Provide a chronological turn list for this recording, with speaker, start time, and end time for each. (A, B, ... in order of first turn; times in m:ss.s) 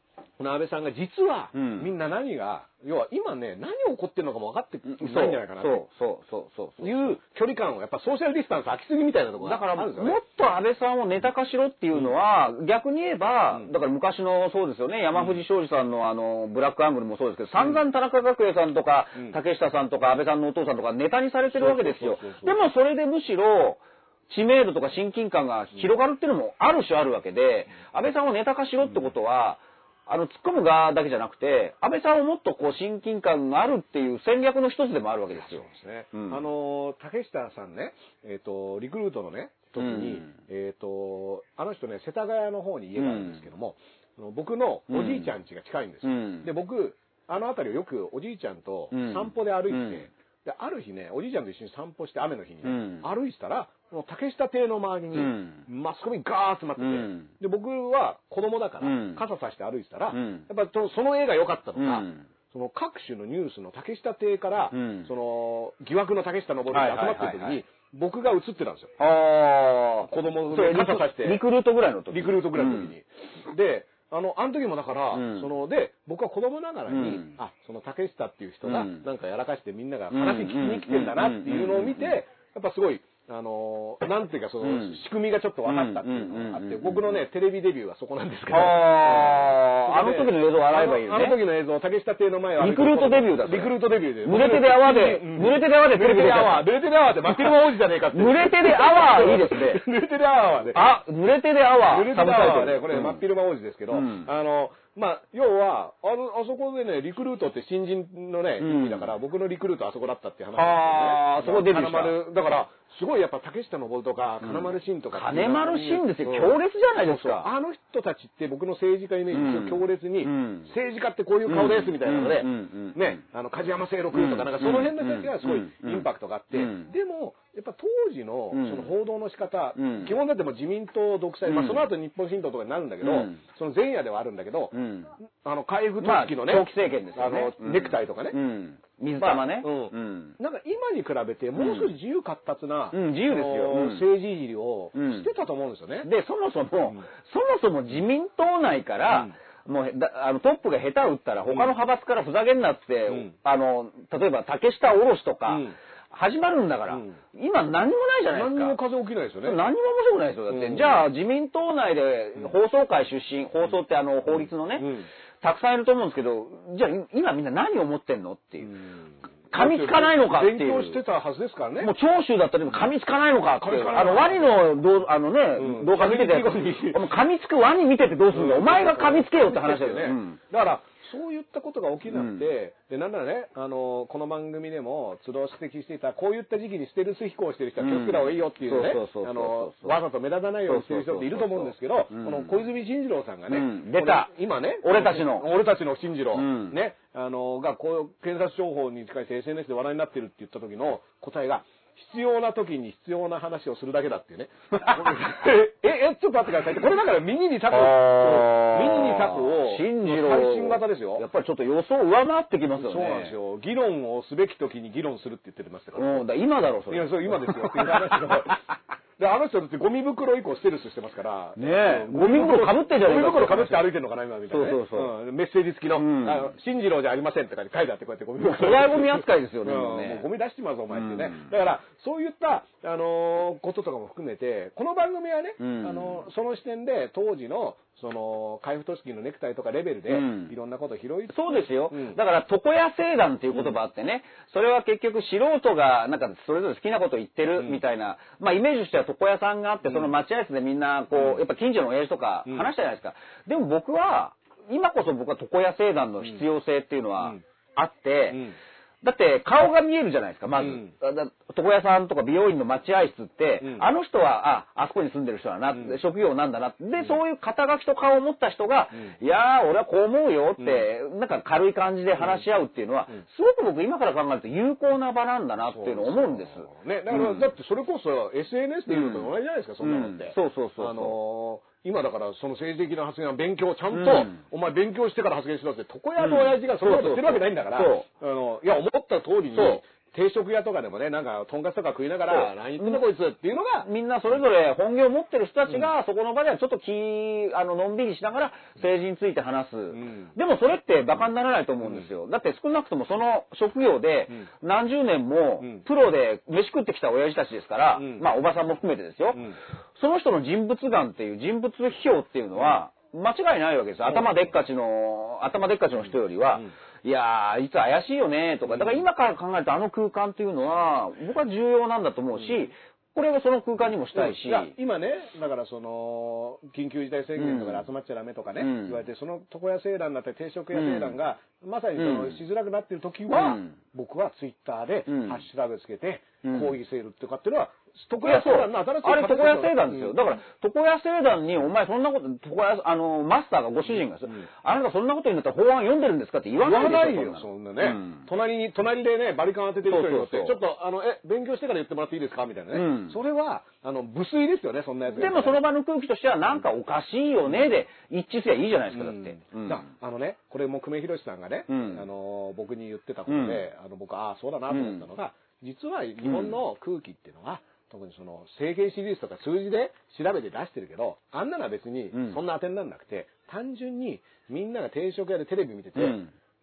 0:00.4-0:05.8 A
0:01.5-0:01.9 B
0:04.8-0:07.1 B
0:06.8-0:10.2 A
0:09.4-0:36.4 B
0:15.1-0:15.4 A
0:21.5-0:22.6 A
0:35.3-1:08.9 A
0:39.8-0:40.3 B
0:43.0-0:43.4 B
0:44.9-0:45.3 B
0:46.0-0:46.5 B
0:48.9-0:50.0 B
0:52.6-0:53.1 B
0:55.1-0:55.6 B
0:56.8-0:57.3 B
0:58.8-0:59.2 B
1:00.1-1:00.4 B
1:01.8-1:02.2 B
1:04.7-1:05.1 B
1:06.7-1:07.6 B
1:09.0-1:12.9 B
1:10.1-1:11.4 A
1:12.1-1:40.9 A
1:15.1-1:15.5 B
1:16.9-1:17.3 B
1:18.6-1:19.0 B
1:20.1-1:22.1 B
1:24.6-1:25.0 B
1:25.6-1:27.2 B
1:28.5-1:31.4 B
1:32.6-1:36.7 B
1:37.2-1:39.8 B
1:40.7-1:43.2 B
1:41.8-2:14.7 A
1:43.9-1:44.3 B
1:48.6-1:49.1 B
1:50.5-1:52.2 B
1:54.4-1:57.5 B
1:59.3-2:00.7 B
2:01.4-2:03.2 B
2:04.1-2:06.9 B
2:08.5-2:08.9 B
2:09.8-2:10.1 B
2:11.4-2:11.8 B
2:13.0-2:13.4 B
2:14.7-2:15.1 B
2:15.4-2:18.4 A
2:16.0-2:20.4 B
2:19.2-2:26.1 A
2:21.6-2:21.9 B
2:22.9-2:24.0 B
2:24.9-2:25.3 B
2:26.0-2:38.8 B
2:29.1-2:29.3 A
2:31.5-2:31.7 A
2:35.5-2:35.7 A
2:36.9-2:37.2 A
2:38.3-2:39.6 A
2:39.4-2:48.7 B
2:40.5-2:41.0 A
2:44.8-2:45.1 A
2:48.6-2:49.0 A
2:49.5-2:51.0 B
2:49.5-2:51.9 A
2:51.8-3:00.4 B
2:53.6-2:54.7 A
2:55.6-2:57.1 A
2:58.3-3:31.2 A
3:02.1-3:02.4 B
3:07.8-3:10.0 B
3:10.7-3:12.6 B
3:13.5-3:14.3 B
3:14.8-3:15.5 B
3:16.3-3:16.8 B
3:24.8-3:25.2 B
3:27.7-3:33.3 B
3:32.8-3:36.2 A
3:35.9-3:38.6 B
3:36.9-3:38.6 A
3:39.2-4:02.2 A
3:41.6-3:43.9 B
3:44.5-3:45.1 B
3:46.0-3:46.5 B
3:48.5-3:50.2 B
3:50.9-3:51.5 B
3:55.6-3:56.2 B
4:00.1-4:00.5 B
4:01.3-4:18.4 B
4:07.6-4:07.8 A
4:09.8-4:10.1 A
4:11.1-4:11.4 A
4:18.3-4:18.6 A
4:19.0-4:37.5 B
4:20.6-4:20.9 A
4:23.6-4:23.9 A
4:30.6-4:30.8 A
4:32.2-4:32.4 A
4:35.7-4:53.9 A
4:38.9-4:41.1 B
4:43.9-4:44.4 B
4:46.2-4:48.0 B
4:49.5-4:49.8 B
4:52.3-4:53.0 B
4:53.8-5:09.4 B
4:59.9-5:00.3 A
5:07.9-5:08.2 A
5:10.0-5:24.7 B
5:18.7-5:19.0 A
5:22.4-5:22.7 A
5:24.1-5:40.1 A
5:27.4-5:27.8 B
5:28.6-5:29.0 B
5:30.7-5:31.1 B
5:32.0-5:32.4 B
5:33.3-5:33.7 B
5:35.1-5:35.4 B
5:36.4-5:36.7 B
5:38.2-5:48.2 B
5:46.6-5:55.6 A
5:49.9-5:50.5 B
5:52.7-5:53.2 B
5:55.1-5:59.8 B
5:58.9-6:16.2 A
6:01.7-6:02.0 B
6:03.3-6:03.6 B
6:04.7-6:05.0 B
6:06.2-6:06.6 B
6:12.1-6:12.4 B
6:16.0-6:16.3 B